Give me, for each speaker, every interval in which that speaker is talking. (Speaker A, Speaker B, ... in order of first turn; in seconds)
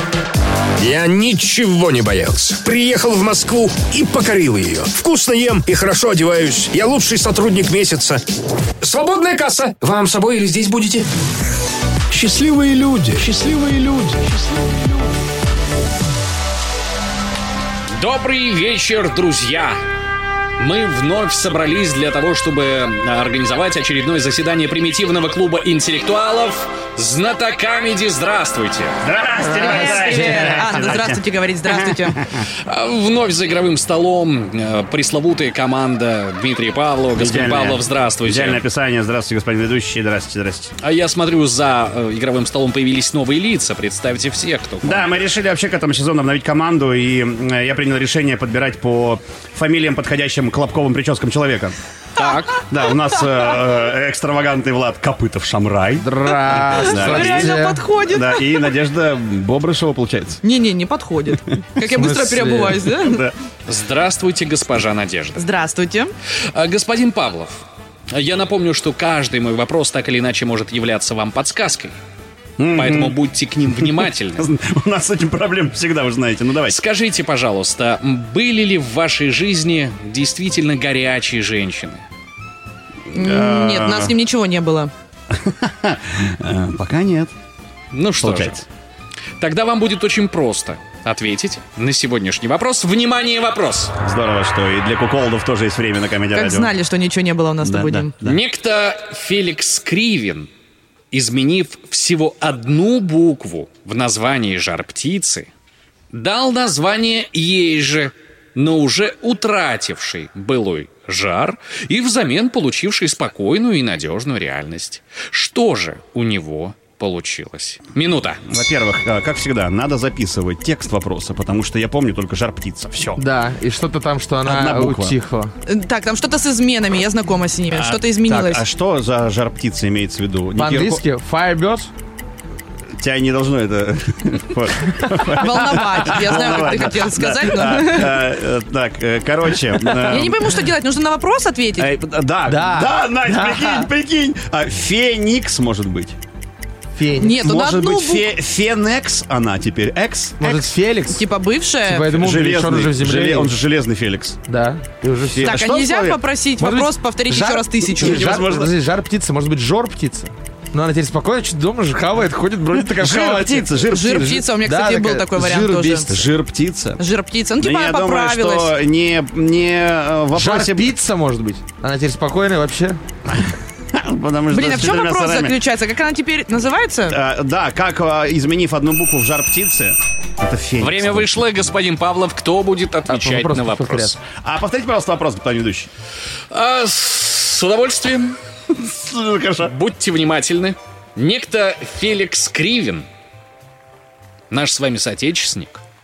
Speaker A: 0.8-8.2, 8.8-11.1, 12.1-14.8
Speaker B: 17.9-19.8, 20.6-29.0, 32.6-38.6, 40.8-45.1, 52.1-52.6, 63.6-65.5, 66.5-71.9, 72.7-74.5, 76.7-82.0, 87.9-88.7, 89.4-93.9, 98.2-100.5, 101.1-105.5, 106.1-118.4, 180.8-184.2, 186.5-188.4, 189.6-193.1, 194.5-195.8
Speaker C: 29.0-32.4, 37.1-40.7, 44.8-51.8, 52.5-60.4, 62.9-63.3, 72.6-76.8, 83.1-84.1, 85.3-87.3, 88.2-88.6, 94.0-96.7, 97.6-98.4, 118.5-123.2, 124.4-125.2, 127.7-131.0, 133.0-140.6, 141.8-146.2, 147.3-150.7, 152.1-154.4, 155.2-156.2, 157.9-158.8, 162.8-164.5, 166.1-167.0, 167.6-170.9, 173.3-175.6, 177.1-181.4, 184.3-185.9, 188.7-189.7
Speaker D: 29.5-32.2, 56.6-58.6, 60.4-63.2, 65.3-66.1, 83.1-84.9, 96.3-98.1, 125.7-128.6, 135.4-138.2, 140.1-141.9, 147.2-148.3, 151.1-152.1, 155.4-158.4, 163.9-166.1, 167.0-168.7, 174.5-177.2
Speaker E: 29.7-30.5, 56.0-57.8, 61.8-62.8, 123.2-125.5, 130.5-131.9, 142.4-143.9, 146.9-147.4, 150.4-151.2, 151.8-153.5, 154.5-155.6, 156.6-163.8, 164.6-166.2, 170.3-173.0, 183.1-184.2